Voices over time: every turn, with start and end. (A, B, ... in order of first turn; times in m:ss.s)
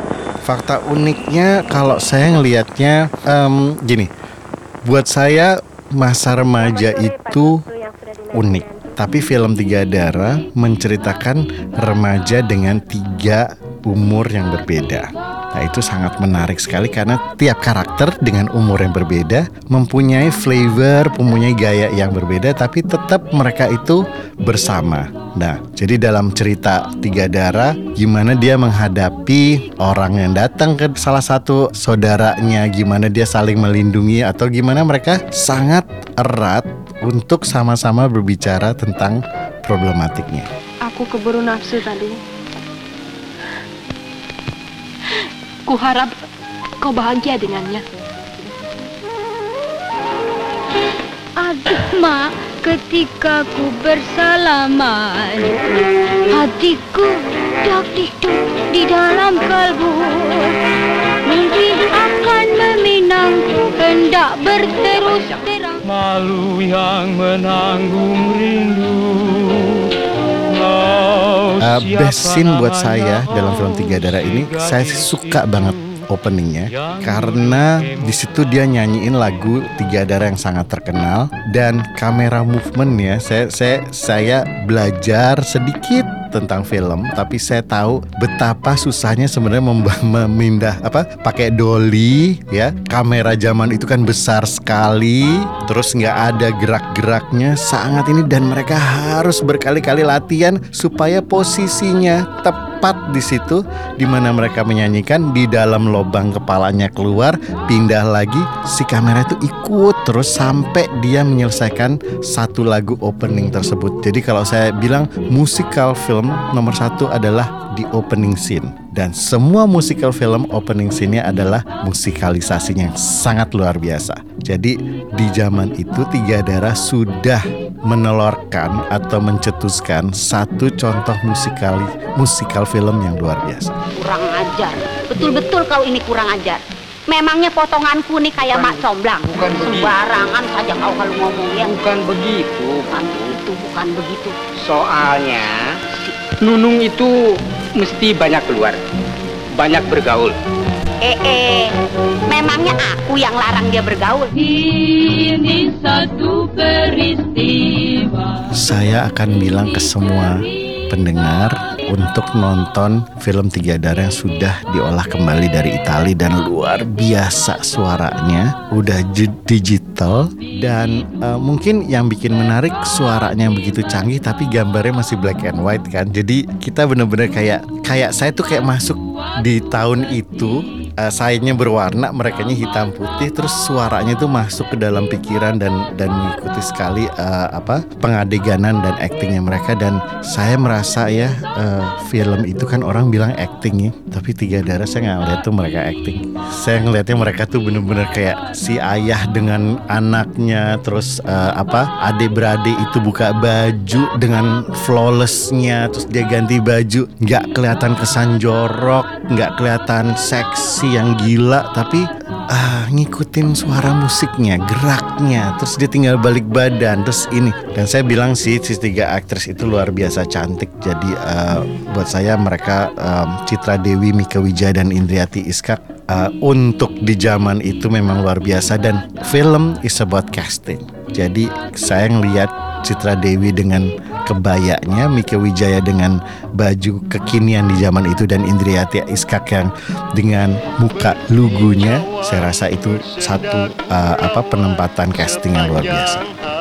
0:00.4-0:04.1 A
0:04.9-0:07.6 A
0:06.6-0:08.9 B
0:08.3-0:40.5 A
0:41.0-0:41.5 B
0:51.4-0:55.6 C
0:56.3-1:00.4 C
1:01.3-1:05.8 C
1:11.6-2:13.8 A
2:14.0-2:21.8 D
2:18.5-2:19.9 E
2:21.6-2:23.3 E
2:22.9-2:24.4 D
2:24.6-2:25.6 E
2:26.4-2:27.1 E
2:27.8-2:28.8 E
2:29.6-2:30.4 E
2:31.0-2:31.7 D
2:32.3-2:34.3 D
2:34.3-2:38.4 F
2:38.5-4:06.3 A